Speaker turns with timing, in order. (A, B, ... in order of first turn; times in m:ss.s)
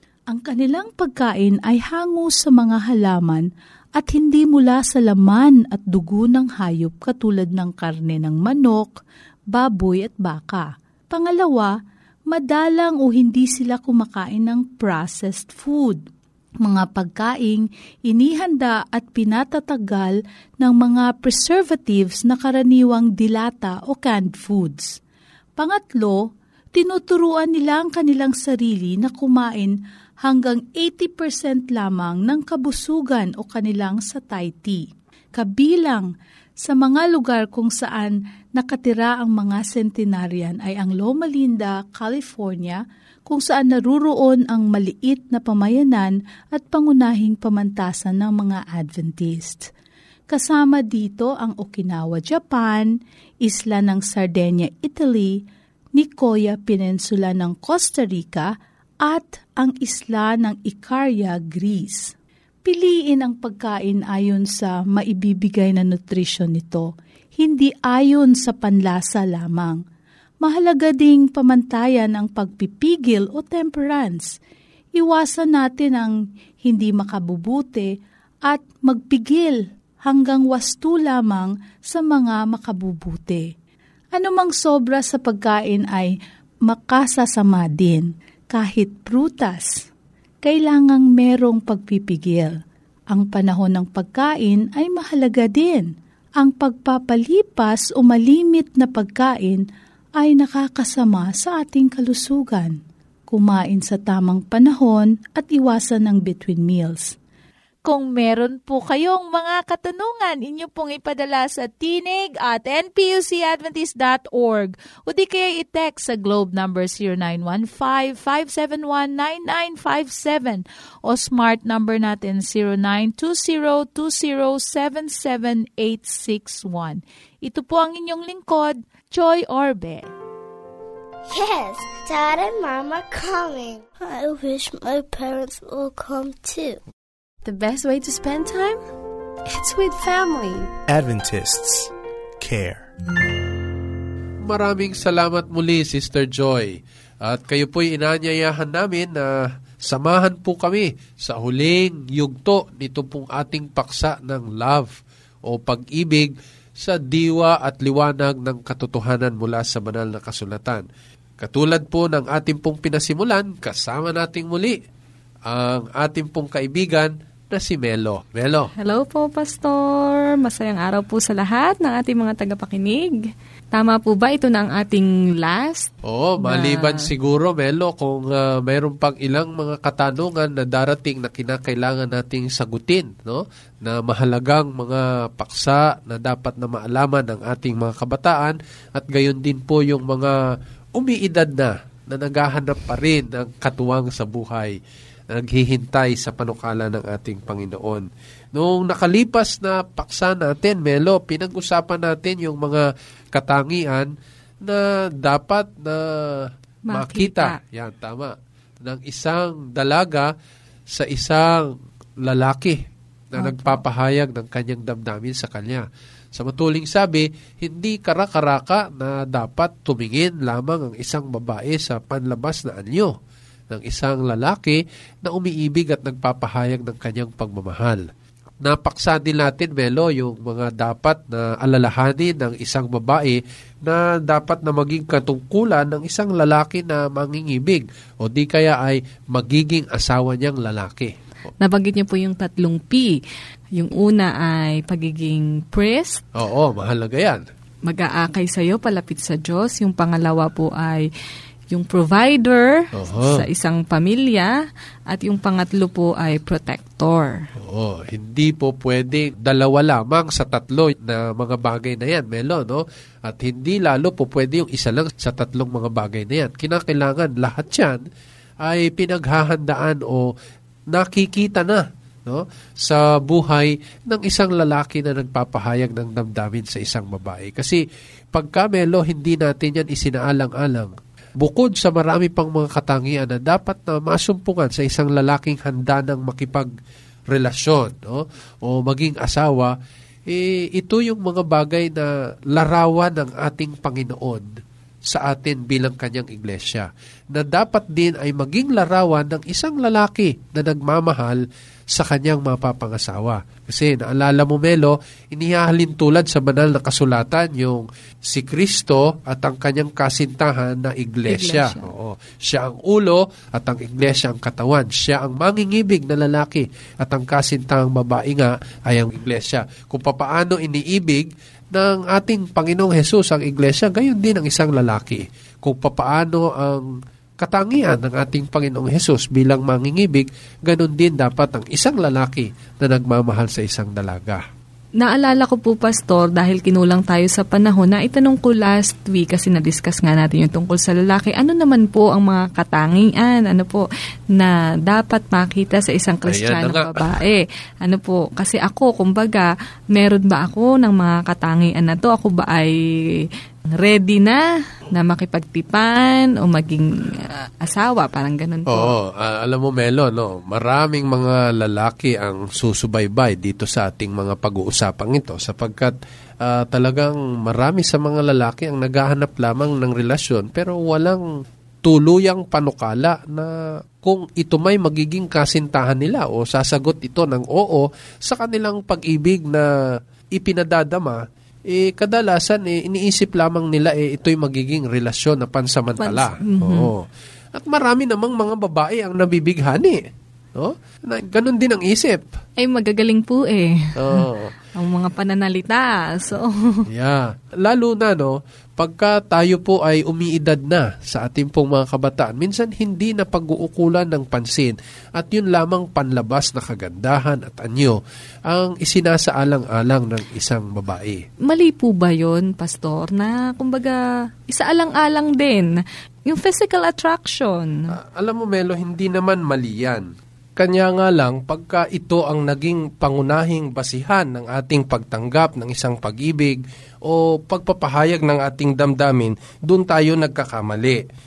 0:00.3-0:09.0 A
0:09.5-0:11.7 A
0:12.3-0:16.0 A
0:16.6-0:25.0 A
0:25.6-0:36.1 A
0:36.6-0:49.7 A
0:50.3-0:52.9 A
0:53.4-0:55.4 A
0:56.0-0:58.5 A
0:59.0-1:02.1 A
1:02.6-1:09.8 A
1:10.4-1:14.4 A
1:15.0-1:17.9 A
1:18.5-1:23.5 A
1:24.1-1:26.1 A
1:26.7-1:29.9 A
1:30.4-1:32.6 A
1:33.1-1:39.6 A
1:40.2-1:42.8 A
1:43.3-1:47.2 A
1:47.8-2:10.1 A
2:11.3-2:16.8 B
2:17.4-2:18.8 C
2:19.5-2:20.7 C
2:20.9-2:22.9 D
2:24.4-2:29.3 E
2:29.8-2:35.0 E
2:35.5-2:40.8 E
2:41.4-2:44.8 E
2:45.5-2:48.7 E
2:48.8-2:57.1 F
2:56.0-3:10.4 E
3:11.0-3:14.7 E
3:15.3-3:24.1 E
3:24.6-3:30.3 E
3:26.9-3:27.6 F
3:30.9-3:43.1 E
3:33.4-3:33.8 F
3:43.7-3:48.0 E
3:48.6-4:01.1 E
4:01.6-4:03.2 F
4:03.8-4:06.2 F
4:06.3-4:07.4 E
4:07.9-4:11.0 F
4:11.7-4:14.5 F
4:12.9-4:13.4 E
4:15.1-4:17.4 F
4:17.6-4:28.0 E
4:28.6-4:30.3 E
4:30.9-4:37.8 E
4:38.3-4:46.7 E
4:47.3-4:49.7 E
4:50.3-4:54.5 E
4:55.1-5:34.4 E
5:11.2-5:11.9 F
5:35.0-5:53.2 F
5:46.2-5:47.1 E
5:53.8-5:58.9 F
5:58.7-6:11.2 E
6:11.8-6:19.6 E
6:20.4-6:30.0 E
6:26.0-6:26.9 F
6:30.6-6:32.4 E
6:32.6-6:36.9 F
6:34.0-6:34.5 E
6:36.9-6:51.2 E
6:51.4-6:57.8 F
6:57.9-7:11.0 E